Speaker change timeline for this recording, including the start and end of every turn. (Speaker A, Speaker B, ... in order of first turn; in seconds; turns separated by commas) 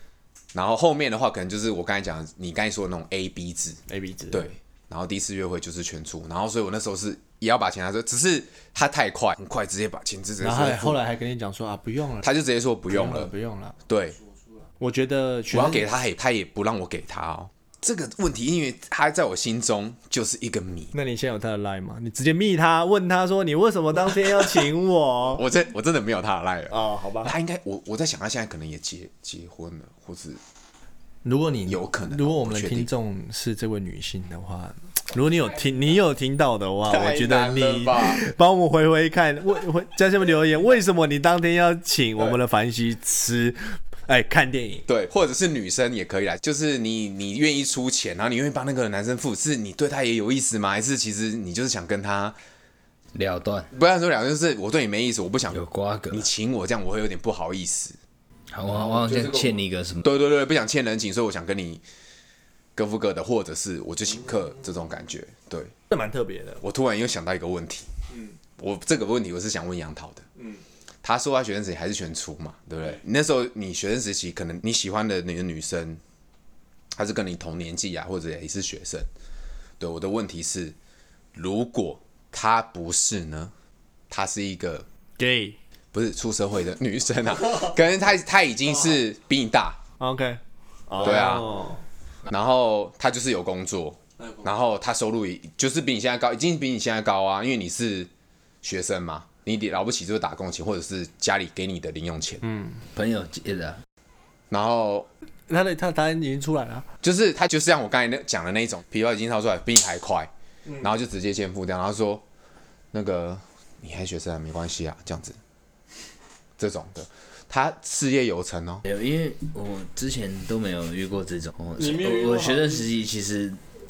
Speaker A: 0.5-3.8, Speaker B: 3.9-4.5, Speaker A: 4.3-11.0, Speaker B: 10.4-12.3, Speaker A: 12.2-13.3, Speaker B: 12.9-13.8, Speaker A: 13.9-14.2, Speaker B: 14.8-15.9, Speaker A: 15.5-20.9, Speaker B: 20.9-25.4, Speaker A: 25.3-30.4, Speaker B: 26.7-27.3, Speaker B: 31.2-44.9, Speaker A: 31.6-32.9, Speaker A: 36.9-38.2, Speaker A: 44.9-52.4, Speaker C: 53.1-53.7, Speaker A: 53.7-58.0, Speaker C: 55.5-56.3, Speaker C: 58.5-60.1, Speaker A: 58.7-61.8, Speaker A: 62.8-65.7, Speaker B: 65.9-66.6, Speaker A: 66.6-67.9, Speaker A: 68.6-70.2, Speaker A: 71.0-76.0, Speaker A: 76.9-79.1, Speaker A: 79.8-80.8, Speaker A: 81.3-83.5, Speaker A: 84.1-84.9, Speaker B: 85.2-85.6, Speaker A: 85.9-89.8, Speaker B: 90.0-91.8, Speaker A: 91.0-91.6, Speaker A: 92.3-98.1, Speaker A: 98.6-102.5, Speaker B: 102.5-102.8, Speaker C: 102.9-103.8, Speaker A: 104.5-105.1, Speaker B: 105.5-106.9, Speaker A: 107.0-112.2, Speaker A: 112.9-115.4, Speaker A: 116.6-118.9, Speaker C: 118.9-123.6, Speaker B: 121.8-122.8